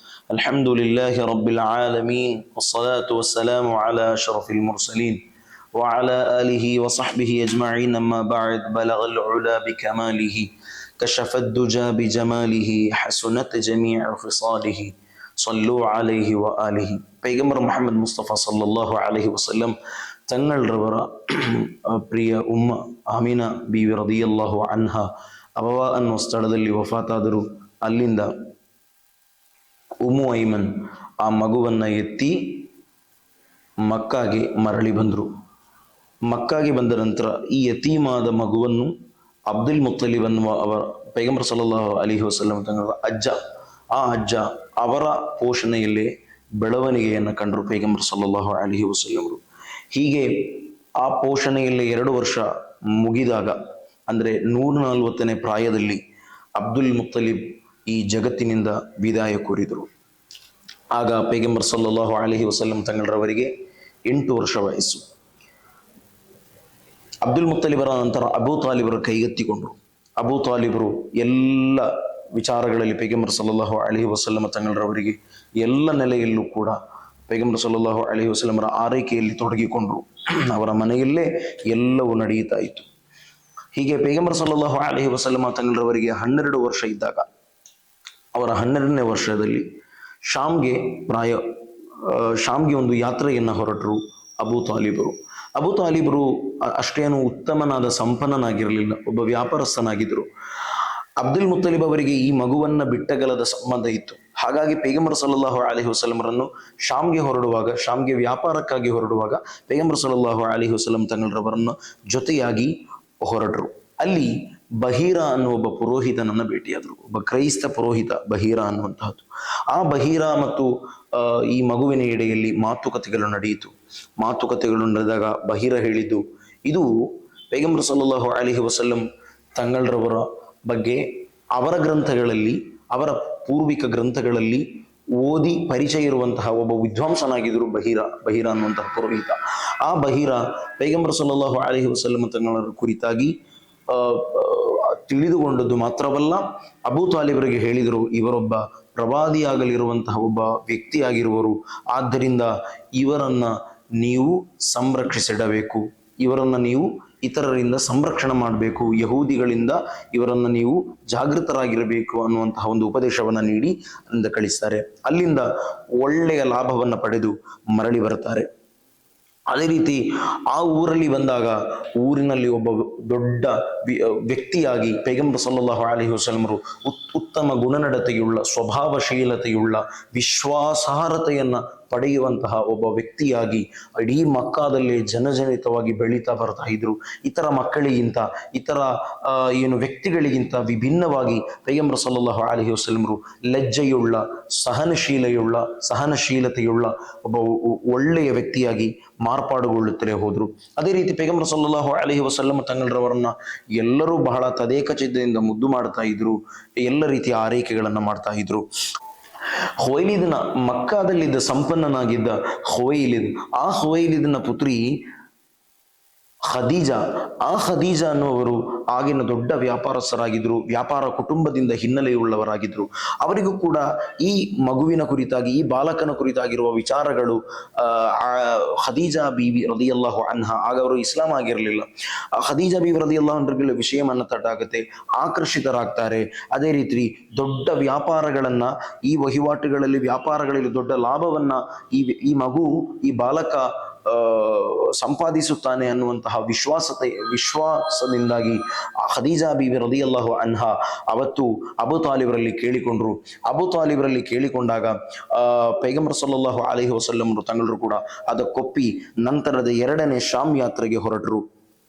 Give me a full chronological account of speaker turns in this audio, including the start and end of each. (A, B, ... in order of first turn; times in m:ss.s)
0:00.3-0:05.2 A
0:05.8-0:10.5 A
0:11.0-0:19.8 A
0:20.3-0:28.3 A
0:30.0-0:32.6 A
0:33.8-0:35.3 A
0:36.3-0:38.9 A
0:39.5-0:43.4 A
0:43.9-0:49.4 A
0:49.9-0:56.0 A
0:56.6-0:59.9 A
1:01.0-1:03.5 A
1:04.1-1:05.0 A
1:07.2-1:16.8 A
1:17.3-1:22.9 A
1:23.7-1:27.3 A
1:28.4-1:29.6 A
1:30.3-1:31.4 A
1:32.0-1:40.3 A
1:41.2-2:06.9 A
2:07.5-2:09.0 A
2:09.6-2:11.0 A
2:11.6-2:14.6 A
2:15.2-2:23.3 A
2:23.9-2:45.5 A
2:46.0-2:48.5 A
2:49.5-3:28.7 A
3:29.8-3:34.8 A
3:36.5-4:21.4 A